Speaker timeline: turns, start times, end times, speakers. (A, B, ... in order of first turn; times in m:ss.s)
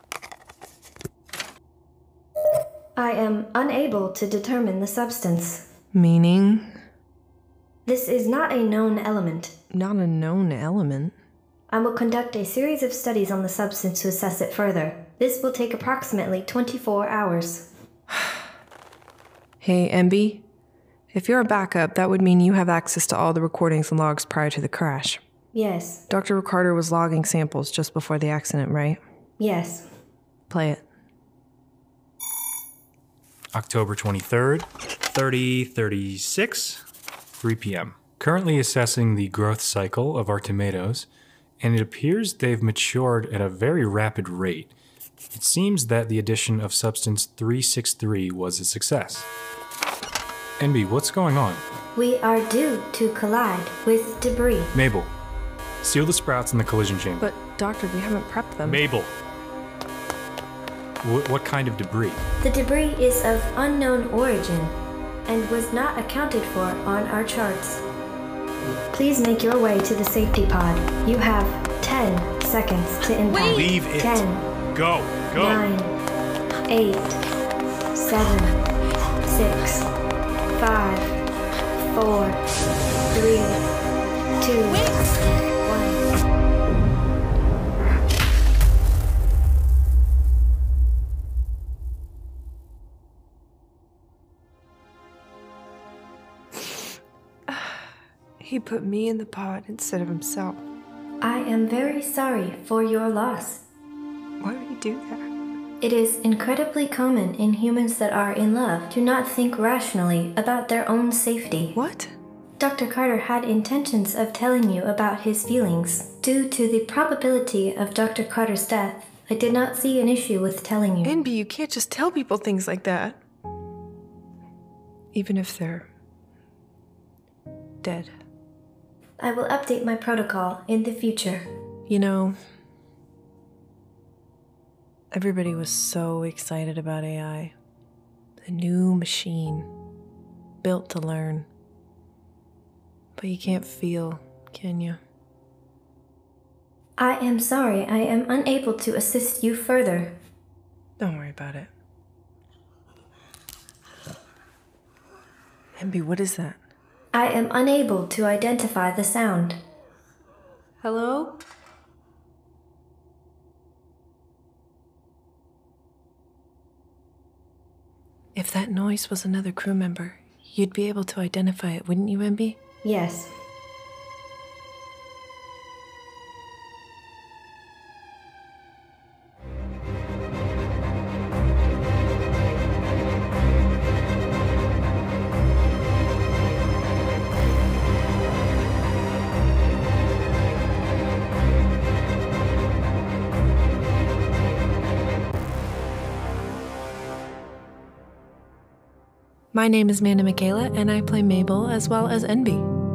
0:03.0-0:05.6 A
0:05.9-0:06.8 B
0:07.8-0:09.5 A
0:09.7-0:11.1 B
0:11.7-0:17.7 A
0:19.6-0:20.4 B
0:21.1-0:25.2 B
0:25.5-0:26.0 A
0:26.1-0:29.0 B
0:29.4-0:29.9 A
0:30.5-0:30.8 B
0:33.5-0:36.8 C
0:37.3-0:41.1 C
0:41.6-0:44.7 C
0:45.3-0:49.3 C
0:50.6-0:51.6 C
0:52.0-0:54.7 A
0:54.7-0:55.1 C
0:55.8-0:57.3 C
0:57.2-0:58.8 B
0:58.6-0:59.1 C
1:01.0-1:02.2 C
1:02.4-1:04.8 A
1:05.3-1:07.8 A
1:08.9-1:14.5 A
1:13.3-1:13.8 B
1:13.5-1:15.6 C
1:15.3-1:15.9 A
1:16.7-1:17.2 A
1:17.9-1:18.6 A
1:19.2-1:19.9 A
1:20.5-1:21.2 A
1:21.8-1:22.4 A
1:23.1-1:23.6 A
1:24.4-1:25.0 A
1:25.6-1:26.0 A
1:37.5-1:37.8 B
1:38.4-1:40.6 B
1:41.2-1:43.6 A
1:44.4-1:45.3 B
1:45.8-1:51.7 A
1:51.7-1:52.1 B
1:52.6-2:01.2 A
2:01.0-2:03.2 B
2:05.1-2:05.9 B
2:07.8-2:08.1 B
2:09.2-2:11.4 A
2:11.9-2:12.4 B
2:15.1-2:17.5 B
2:18.4-2:19.7 B
2:20.6-2:21.5 B
2:23.2-2:25.0 B
2:27.0-2:30.2 A
2:31.0-2:31.7 B
2:35.8-2:36.6 B
2:37.1-2:39.6 A
2:40.8-2:41.4 B
2:48.3-2:52.6 B
2:52.8-2:53.3 A
3:19.5-3:22.7 B